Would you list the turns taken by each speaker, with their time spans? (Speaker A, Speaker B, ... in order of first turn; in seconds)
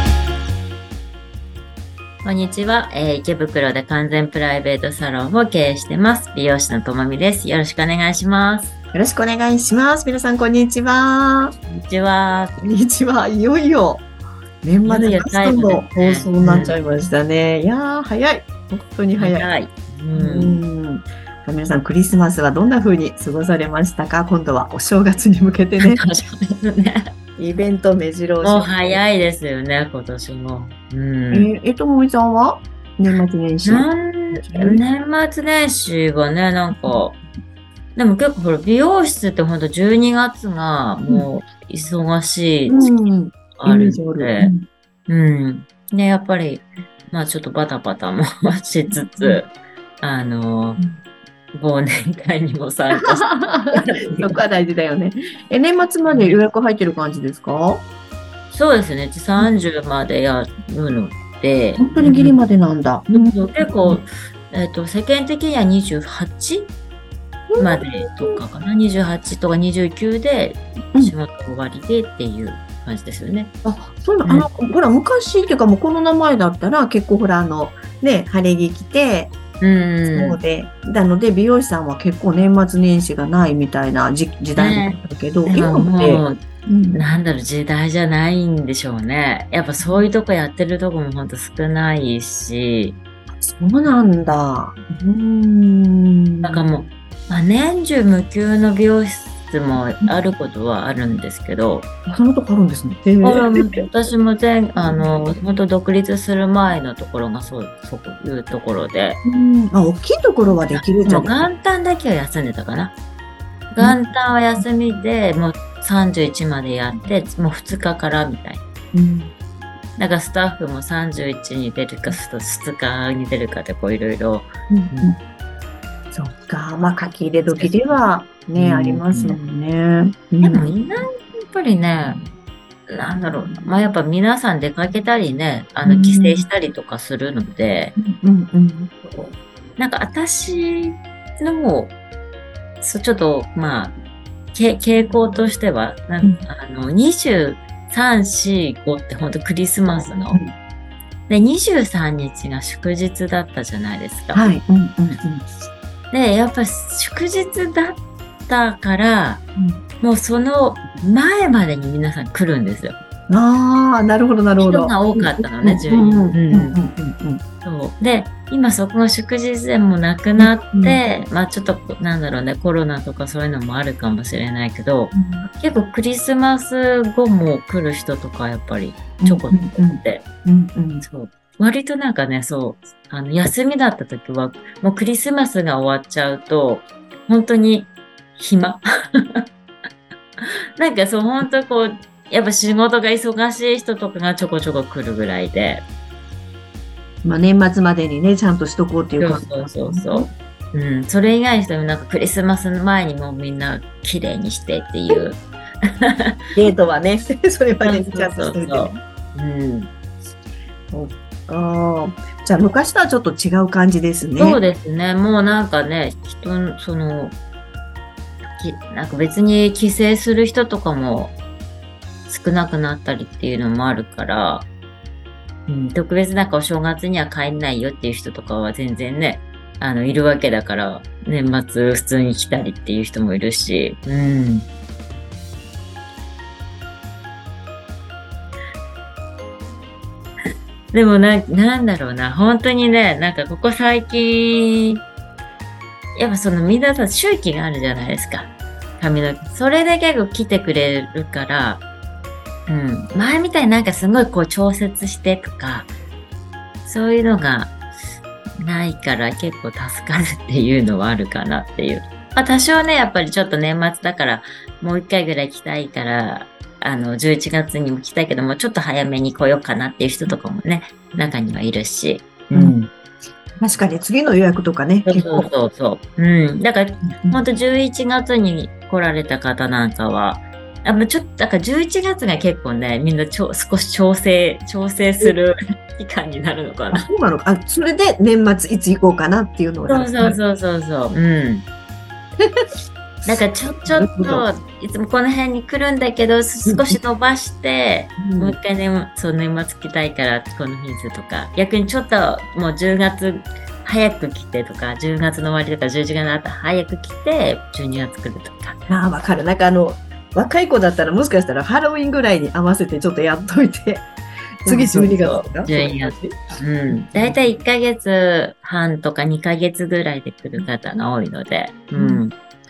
Speaker A: 2.2-8.7, 11.7-12.6, 14.8-16.8, 19.2-20.6, 25.8-27.1, 28.4-31.5, 33.6-37.2, 37.9-42.9, 43.6-44.5, 45.1-50.8, 51.5-54.4, 56.0-56.4, 58.5-62.4, 63.1-66.7, 67.6-73.5, 74.2-74.5, 79.6-80.4, 84.5-86.4, 86.9-93.0, 93.8-94.3, 96.4-101.9, 103.2-109.2, 110.7-112.9, 113.7-118.6, 120.0-125.1, 127.4-129.4, 130.4-132.2, 132.9-137.9, 139.0-141.9, 142.8-143.9, 144.5-150.4, 151.3-154.6, 156.1-159.4, 160.0-162.9, 164.6-166.8, 167.6-180.2, 181.0-189.4, 190.4-195.8, 199.2-206.4, 207.8-209.9, 214.4-217.3, 218.6-221.3, 222.3-224.7, 225.7-234.7, 240.9-245.0, 246.2-251.8, 252.7-255.9, 256.9-257.7, 258.6-272.9, 275.1-287.1, 289.9-291.6, 293.3-308.8, 314.6-322.3
Speaker B: 8.9-11.5, 12.6-14.1, 14.6-19.5, 20.1-26.0, 27.4-29.0, 31.3-34.8, 42.7-44.6, 48.9-49.4, 53.0-57.8, 61.8-64.0, 67.5-68.4, 73.6-79.3, 80.1-87.0, 89.8-90.0, 93.4-96.6, 102.0-103.9, 104.8-105.2, 109.2-111.5, 118.9-119.3, 124.7-125.2, 126.1-130.7, 135.8-136.4, 138.0-138.9, 154.3-155.5, 159.6-159.8, 163.3-167.4, 170.4-171.0, 175.1-175.5, 179.2-181.0, 197.2-200.3, 206.5-209.0, 210.9-214.6, 272.5-272.8, 273.6-275.5, 286.9-290.4, 292.4-292.7, 293.2-294.5, 296.6-297.0, 298.2-298.6, 308.9-314.1, 314.6-317.6, 320.5-321.0, 321.9-322.2